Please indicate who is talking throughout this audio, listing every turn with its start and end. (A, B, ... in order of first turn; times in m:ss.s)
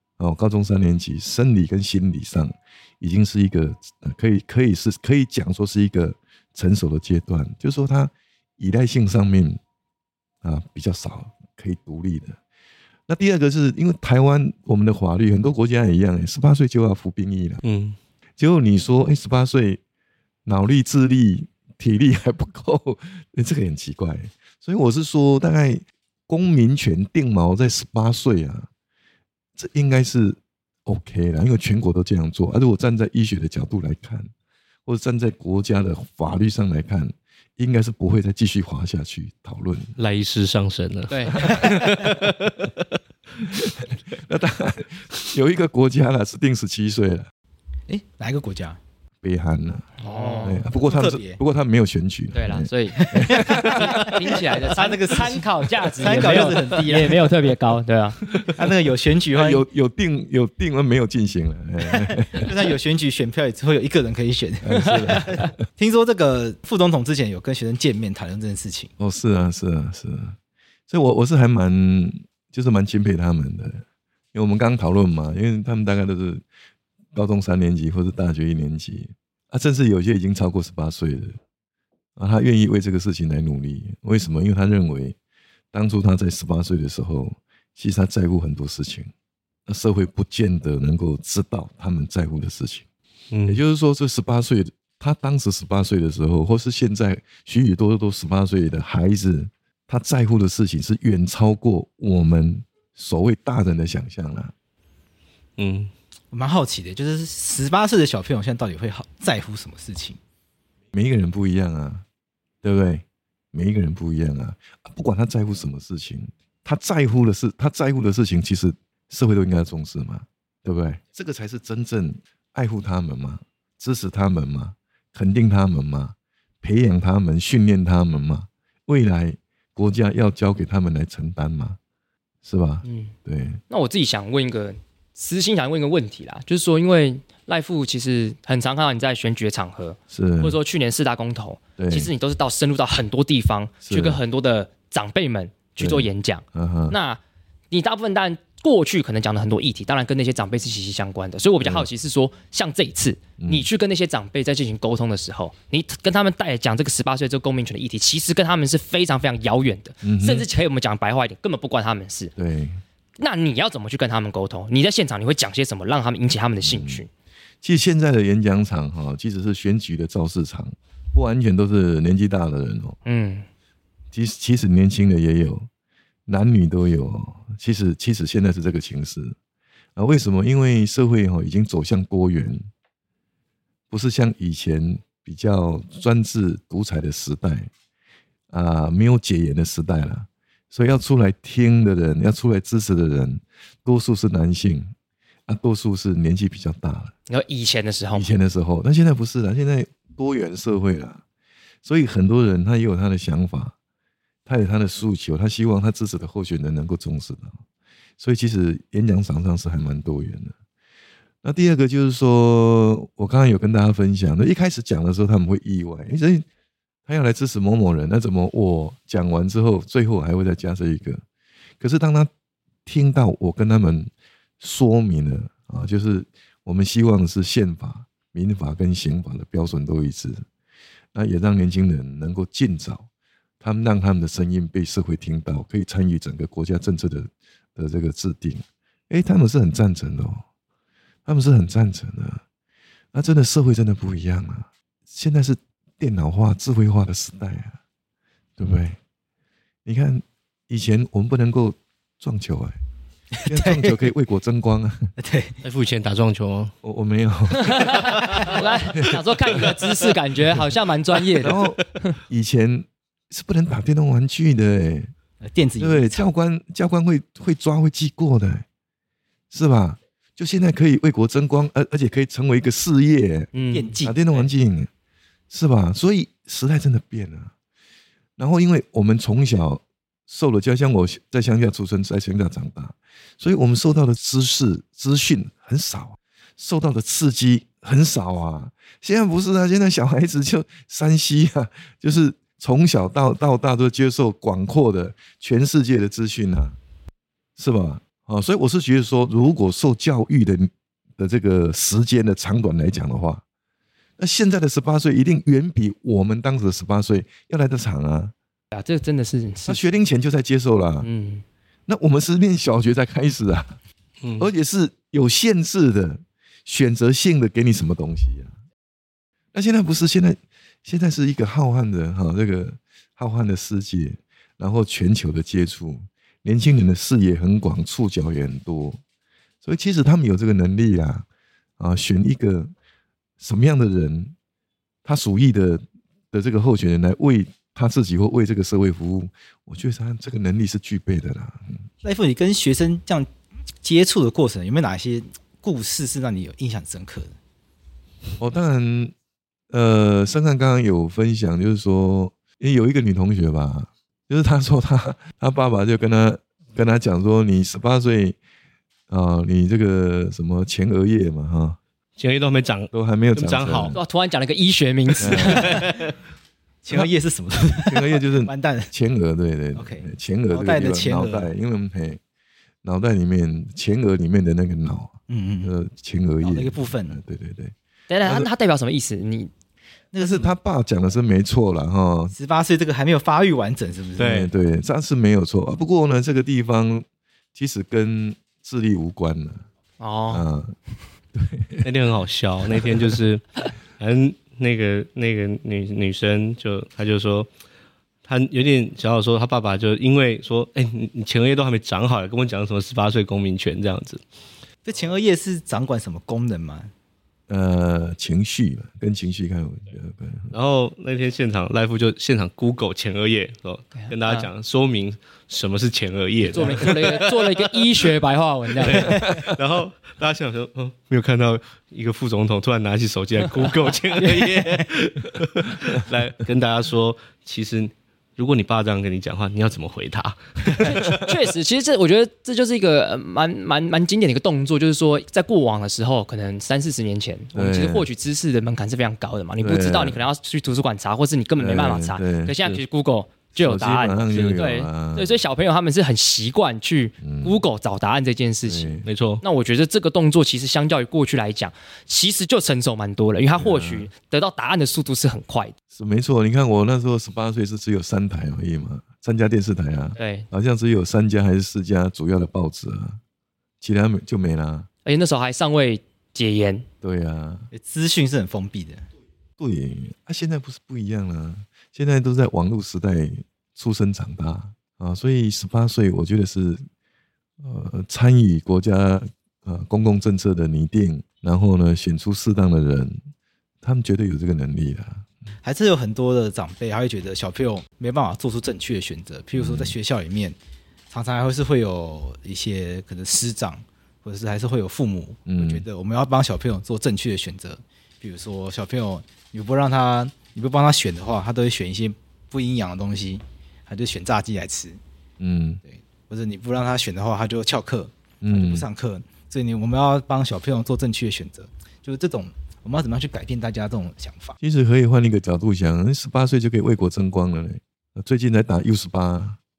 0:00.2-0:09.6 A
0:10.4-0:12.4 A
0:13.1-0:17.6 A
0:17.6-0:18.0 B
0:18.4-0:19.8 A
0:20.4-0:28.7 A
0:29.6-0:34.3 A
0:34.8-0:39.9 A
0:40.0-0:42.8 B
0:41.1-0:41.4 C
0:43.4-0:47.3 A
0:47.9-0:48.8 D
0:49.2-0:54.1 A
0:50.0-0:50.6 C
0:50.0-0:51.4 D
0:52.3-0:58.2 C
0:53.0-0:57.2 D
0:58.4-0:59.6 D
0:59.3-1:02.5 A
1:01.8-1:08.9 D
1:04.6-1:05.5 A
1:09.0-1:10.4 A
1:10.9-1:16.4 A
1:17.1-1:21.4 A
1:22.2-1:25.2 A
1:25.7-1:29.1 A
1:29.7-1:32.8 A
1:33.3-1:33.6 B
1:33.5-1:44.5 A
1:45.6-1:45.9 B
1:46.3-1:50.2 D
1:50.9-1:52.0 A
1:52.6-2:11.8 A
2:12.4-2:13.6 A
2:12.8-2:13.1 C
2:13.7-2:27.2 C
2:20.1-2:20.6 A
2:21.8-2:22.1 A
2:23.8-2:24.2 A
2:25.8-2:27.0 A
2:27.7-2:42.3 C
2:31.6-2:31.8 A
2:33.4-2:33.7 A
2:40.0-2:40.5 A
2:42.4-2:42.8 A
2:43.2-2:47.1 C
2:46.6-2:47.0 A
2:47.6-2:53.0 A
2:53.0-2:53.5 C
2:54.1-2:55.7 A
2:56.2-2:59.4 A
3:00.0-3:02.6 A
3:03.9-3:07.7 A
3:08.5-3:14.9 A
3:15.5-3:17.1 A
3:17.3-3:18.3 C
3:18.1-3:21.2 A
3:21.8-3:23.7 A
3:24.4-3:27.6 A
3:28.2-3:30.6 A
3:31.4-3:36.4 A
3:37.0-3:41.2 A
3:41.8-3:42.3 A
3:42.8-3:50.4 A
3:51.1-3:53.1 A
3:53.6-4:00.4 A
4:01.2-4:02.4 A
4:03.1-4:07.8 A
4:08.6-4:09.0 A
4:09.8-4:12.8 A
4:13.4-4:15.1 A
4:13.5-4:14.0 D
4:15.2-4:15.6 D
4:15.6-4:16.7 B
4:16.8-4:18.3 A
4:17.6-4:22.2 C
4:19.0-4:19.6 A
4:21.4-4:25.1 A
4:25.4-4:26.2 D
4:25.8-4:28.6 A
4:29.5-4:34.9 A
4:33.5-4:34.0 C
4:33.7-4:34.3 D
4:35.5-4:37.5 A
4:38.4-4:56.8 A
4:57.6-5:03.4 A
5:04.2-5:08.3 A
5:08.7-5:09.8 C
5:09.6-5:11.1 A
5:11.0-5:11.4 C
5:11.9-5:13.8 A
5:14.2-5:14.5 B
5:14.4-5:18.5 A
5:19.5-5:29.0 A
5:29.6-5:31.3 A
5:31.8-5:32.7 A
5:33.4-5:34.3 A
5:35.0-5:41.8 A
5:42.0-5:43.3 D
5:43.8-5:47.4 D
5:48.4-5:49.1 A
5:49.7-5:58.4 A
5:59.1-6:01.8 A
6:02.2-6:03.9 B
6:02.9-6:04.0 A
6:03.9-6:05.8 C
6:05.2-6:05.7 A
6:06.8-6:08.9 D
6:07.8-6:12.2 A
6:09.7-6:11.5 D
6:12.8-6:18.5 A
6:15.3-6:15.7 D
6:16.4-6:17.2 D
6:18.1-6:19.5 C
6:20.1-6:20.5 D
6:20.2-6:22.3 A
6:22.3-6:24.3 D
6:24.2-6:24.5 B
6:24.2-6:29.6 A
6:30.0-6:30.4 C
6:30.3-6:30.8 A
6:31.3-6:31.9 A
6:31.8-6:37.5 B
6:32.8-6:33.2 A
6:38.2-6:44.2 B
6:44.8-6:46.9 D
6:47.5-6:50.5 A
6:50.5-6:57.8 B
6:54.0-6:54.5 C
6:56.4-6:59.5 C
6:58.8-7:11.0 B
6:59.2-6:59.5 A
7:04.2-7:04.9 D
7:10.7-7:35.7 C
7:17.5-7:18.1 A
7:19.6-7:20.2 A
7:21.6-7:22.6 A
7:23.5-7:25.4 A
7:27.2-7:27.6 A
7:28.6-7:29.0 A
7:29.0-7:29.4 B
7:33.5-7:34.1 A
7:35.9-7:43.2 A
7:40.2-7:40.5 C
7:43.8-7:44.9 A
7:45.0-7:46.8 C
7:47.0-7:47.7 A
7:47.7-7:49.0 D
7:49.6-7:56.8 A
7:57.6-8:03.2 A
8:03.8-8:05.3 A
8:05.6-8:10.6 D
8:09.5-8:09.9 A
8:11.1-8:25.0 D
8:15.5-8:15.8 A
8:25.4-8:25.8 A
8:25.8-8:34.6 D
8:28.4-8:28.8 A
8:34.6-8:39.6 A